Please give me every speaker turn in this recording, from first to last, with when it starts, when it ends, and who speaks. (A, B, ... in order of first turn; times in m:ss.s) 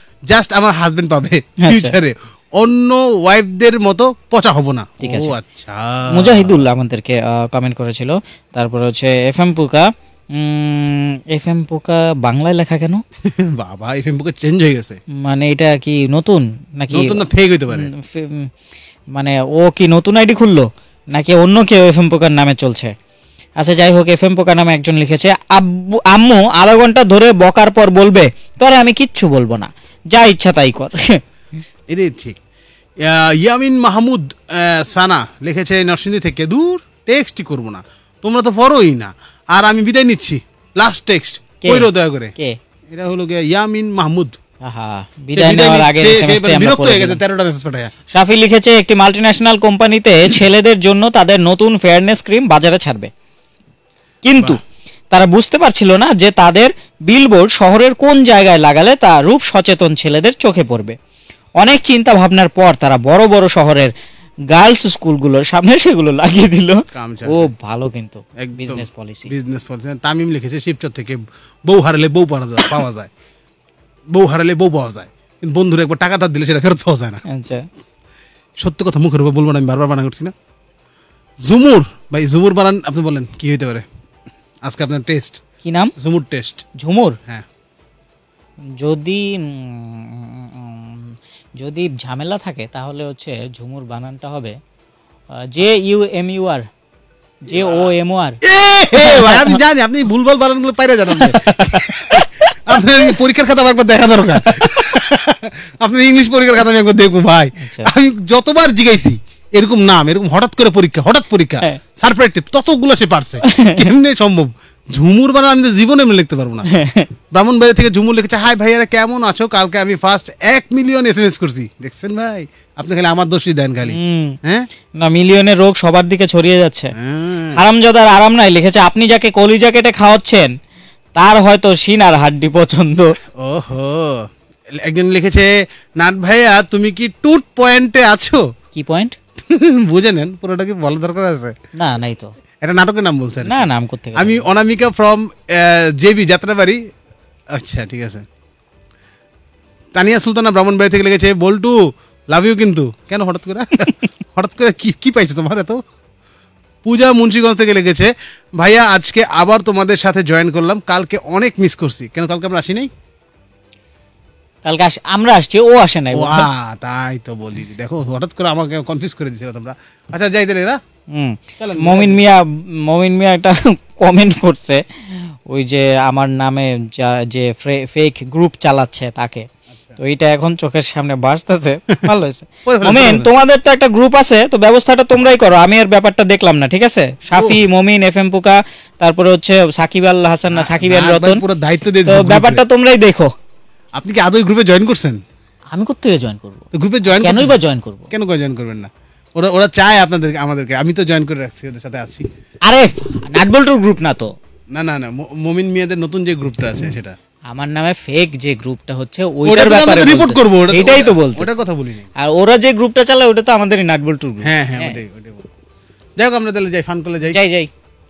0:00.3-0:06.6 A
0:01.6-0:02.0 B
0:05.0-0:05.4 B
0:06.1-0:13.0 B
0:13.2-0:15.0 A
0:15.2-0:18.5 B
0:16.9-0:17.9 A
0:19.1-0:22.9 B
0:23.6-0:31.2 B
0:31.9-0:32.4 A
0:33.0-0:42.3 A
0:41.6-0:42.6 B
0:42.9-0:44.4 A
0:44.6-0:47.2 B
0:45.3-0:47.9 A
0:48.1-0:53.1 B
0:54.2-0:54.6 B
0:55.1-1:01.0 B
1:01.6-1:03.9 B
1:04.5-1:09.3 B
1:06.9-1:07.5 A
1:08.4-1:13.1 A
1:14.1-1:17.2 A
1:17.3-1:17.7 B
1:18.6-1:20.3 A
1:21.4-1:23.9 A
1:24.6-1:25.4 A
1:25.6-1:25.9 B
1:26.0-1:26.6 A
1:26.8-1:27.2 B
1:28.8-1:34.6 B
1:35.4-1:36.7 B
1:37.5-1:37.9 A
1:37.5-1:38.4 B
1:38.4-1:56.7 A
1:38.9-1:39.6 B
1:41.2-1:43.1 B
1:47.6-1:47.9 B
1:53.5-1:53.8 B
1:56.7-1:57.1 B
1:57.3-2:04.7 A
2:03.9-2:04.4 B
2:05.0-2:06.9 B
2:07.0-2:07.6 A
2:07.6-2:10.5 B
2:11.2-2:13.1 B
2:13.4-2:18.4 A
2:18.7-2:19.2 B
2:19.4-2:21.6 A
2:21.8-2:22.3 B
2:22.6-2:26.8 A
2:23.4-2:24.5 B
2:27.5-2:28.2 A
2:30.0-2:31.8 A
2:32.3-2:35.8 A
2:36.8-2:42.9 A
2:44.6-2:46.5 B
2:46.1-2:50.8 A
2:51.1-2:59.5 B
2:51.6-2:52.2 A
2:59.7-3:00.0 A
3:00.0-3:11.4 B
3:02.7-3:03.3 A
3:07.4-3:07.6 A
3:10.5-3:12.6 A
3:12.1-3:13.3 B
3:14.0-3:15.2 A
3:15.7-3:18.1 B
3:16.7-3:17.6 A
3:18.1-3:22.3 A
3:22.7-3:24.3 B
3:24.7-3:27.2 A
3:27.5-3:31.6 B
3:29.4-3:32.1 A
3:32.2-3:35.0 B
3:34.4-3:35.5 A
3:36.2-3:37.4 A
3:37.3-3:37.7 B